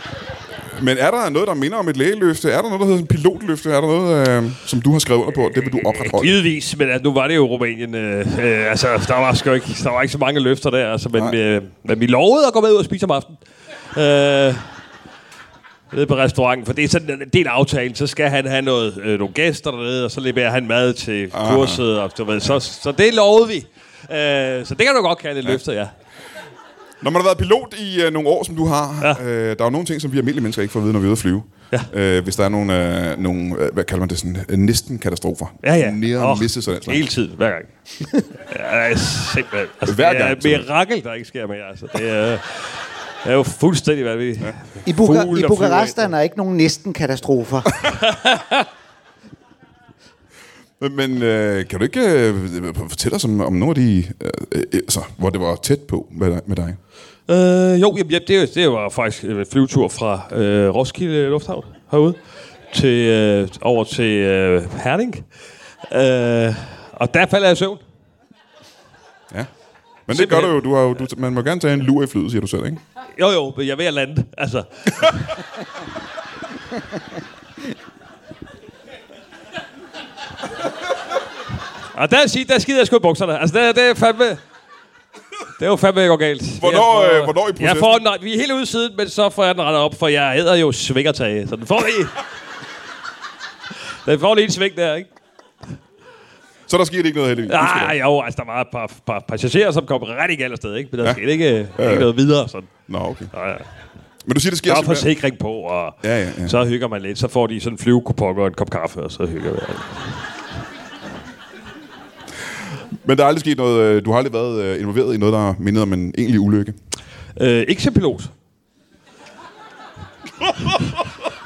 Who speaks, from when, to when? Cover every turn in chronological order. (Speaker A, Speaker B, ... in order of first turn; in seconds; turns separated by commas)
Speaker A: 0.7-6.3, Speaker B: 5.8-13.4, Speaker B: 13.9-14.7, Speaker B: 15.9-25.9, Speaker A: 21.3-21.8, Speaker A: 27.0-37.0, Speaker B: 35.6-46.1, Speaker A: 39.9-40.7, Speaker C: 44.8-47.9, Speaker B: 47.9-48.7, Speaker A: 50.8-56.8, Speaker B: 57.3-62.2, Speaker B: 62.7-65.3, Speaker B: 65.8-67.8, Speaker A: 70.1-72.8, Speaker B: 70.1-70.5, Speaker B: 73.2-75.4, Speaker B: 81.9-84.4, Speaker B: 85.6-92.2, Speaker A: 86.6-88.0, Speaker B: 93.8-95.1, Speaker A: 96.7-98.0, Speaker B: 97.5-102.7, Speaker A: 101.8-102.1, Speaker A: 102.9-103.3, Speaker B: 103.3-103.7, Speaker A: 104.3-105.1, Speaker B: 104.7-110.2, Speaker A: 106.0-106.6, Speaker A: 113.0-116.8, Speaker B: 117.4-118.3